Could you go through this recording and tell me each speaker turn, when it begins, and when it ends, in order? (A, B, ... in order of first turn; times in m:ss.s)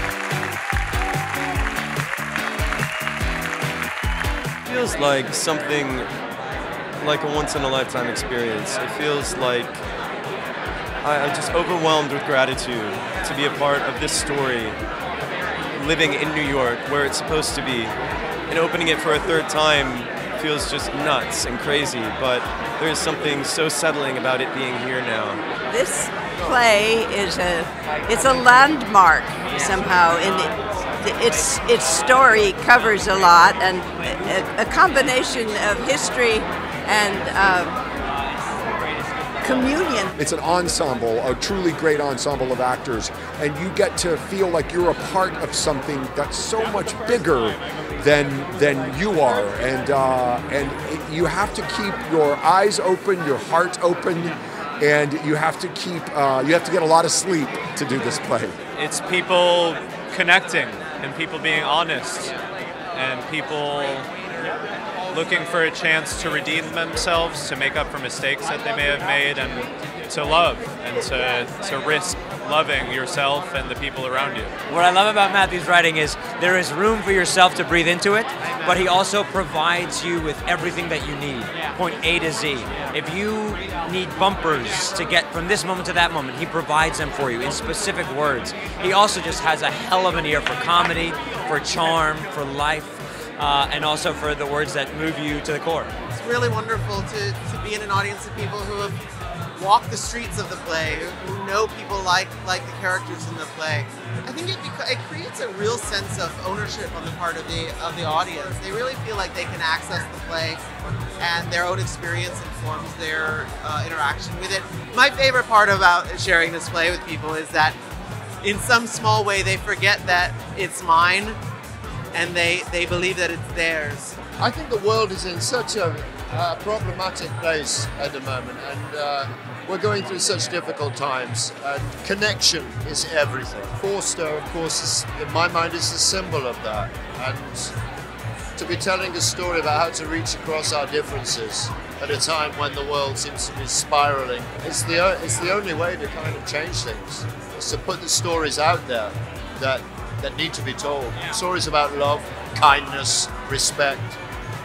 0:04.6-0:06.1 A
0:07.0-0:09.8 A
0:11.0-0:14.8 A
0:15.8-0:17.9 A
0:18.5-0:25.4 A
0:25.7-0:37.8 B
0:39.4-0:40.1 B
0:40.2-0:58.6 C
0:58.8-1:02.4 D
1:02.9-1:04.1 D
1:05.1-1:14.5 D
1:14.7-1:35.9 E
1:36.1-1:39.0 F
1:39.5-1:50.6 F
1:51.2-1:57.8 F
1:58.4-2:01.4 F
2:02.1-2:04.2 F
2:04.4-2:17.7 G
2:18.6-2:34.2 G